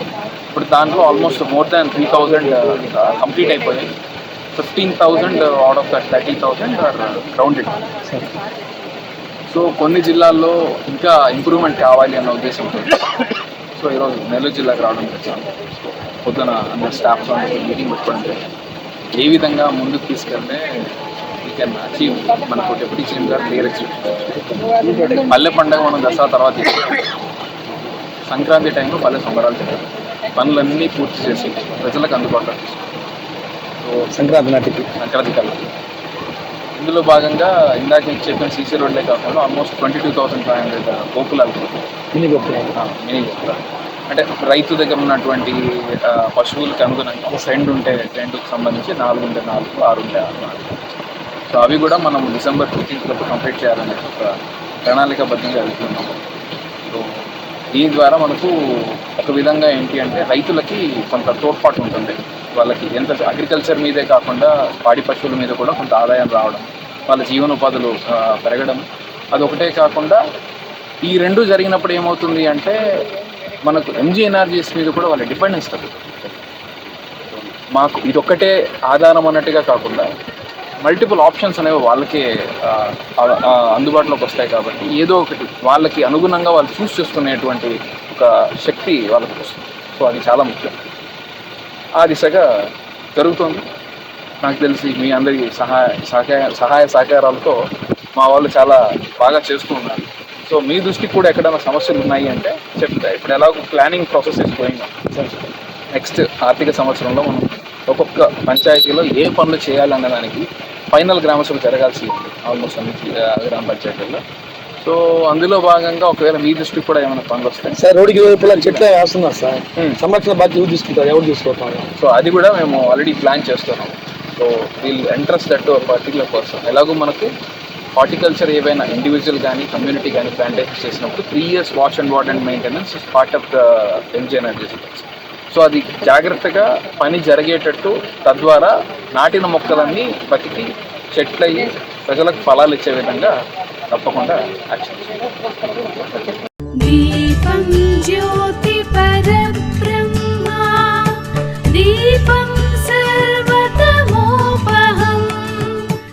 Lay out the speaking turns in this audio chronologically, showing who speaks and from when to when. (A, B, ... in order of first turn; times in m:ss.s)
0:00.5-0:03.9 A
0:04.6-0:07.8 A
0:09.5-0:15.5 A
0:16.1-0:18.4 A
0:19.2-0:20.9 A
0:21.4-0:24.4 A
0:24.6-0:25.3 B
0:25.2-0:27.1 A
0:28.3-0:32.9 A
0:34.1-0:34.9 B
0:35.0-0:35.7 A
0:36.8-0:41.9 A
0:42.1-0:42.7 B
0:42.8-0:50.8 A
0:51.5-0:56.2 A
0:57.7-0:58.6 A
0:59.1-1:10.2 A
1:11.0-1:12.8 A
1:13.6-1:16.2 A
1:17.7-1:20.1 A
1:20.8-1:30.8 A
1:32.0-1:32.5 A
1:33.2-1:33.7 A
1:34.4-1:37.6 A
1:38.2-1:45.0 A
1:45.1-1:45.4 B
1:45.9-1:54.2 A
1:54.8-1:58.9 A
1:57.7-2:01.9 B
2:02.0-2:07.3 A
2:08.0-2:23.3 A
2:23.9-2:25.3 A
2:26.8-2:35.9 C